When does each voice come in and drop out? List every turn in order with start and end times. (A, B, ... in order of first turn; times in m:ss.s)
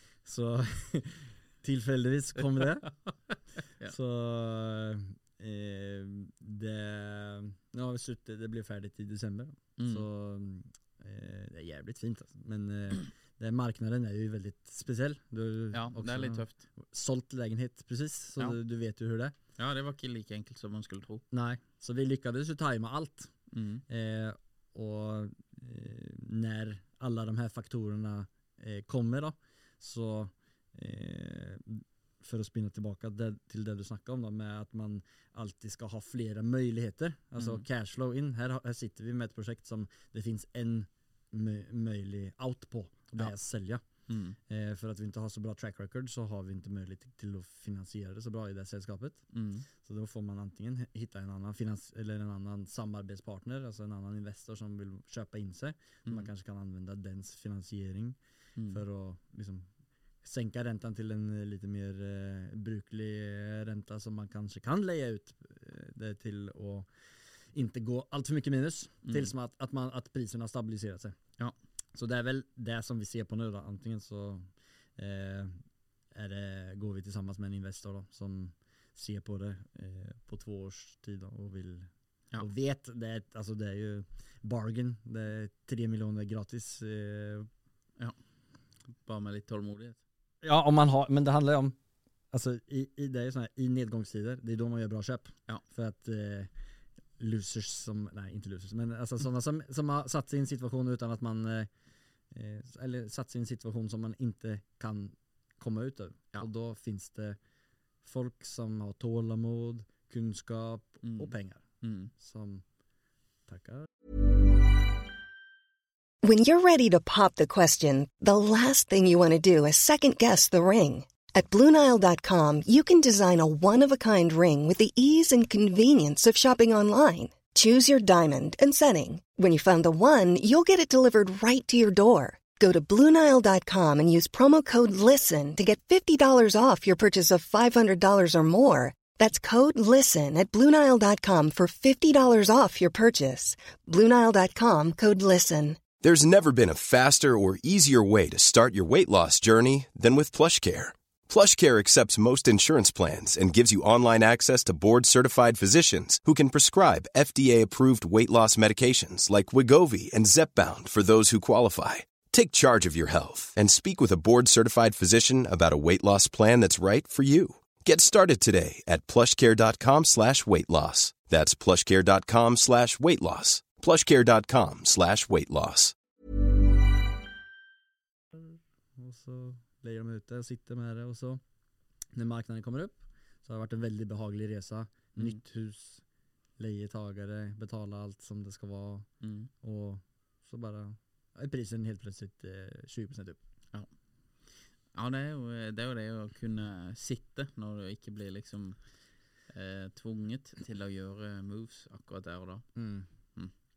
0:00.2-0:02.9 A
0:02.5-0:03.9 B
0:03.8-0:19.3 A
0:09.8-0:10.0 B
0:15.7-0:16.6 B
0:19.6-0:21.2 B
0:21.3-0:23.3 A
0:23.5-0:23.8 B
0:23.9-0:43.8 A
0:37.4-0:37.6 B
0:44.1-0:44.4 B
0:44.5-0:49.2 A
0:49.3-0:49.7 B
0:49.8-0:58.2 A
0:58.6-0:58.8 B
0:58.7-0:59.7 A
1:00.2-1:06.9 A
1:07.5-1:11.2 A
1:09.0-1:09.3 B
1:11.9-1:15.6 A
1:16.1-1:27.5 A
1:29.0-1:30.0 B
1:30.4-1:31.8 A
1:32.3-1:36.5 A
1:37.2-1:41.7 A
1:42.3-1:47.4 A
1:48.0-1:52.6 A
1:51.0-1:52.1 B
1:53.5-1:53.9 A
1:56.2-2:25.8 C
2:26.0-2:55.9 D
2:58.4-3:01.4 A
3:02.1-3:06.0 A
3:06.6-3:09.1 A
3:09.2-3:09.5 B
3:09.6-3:13.4 A
3:14.9-3:18.8 B
3:19.5-3:22.6 B
3:22.8-3:23.0 A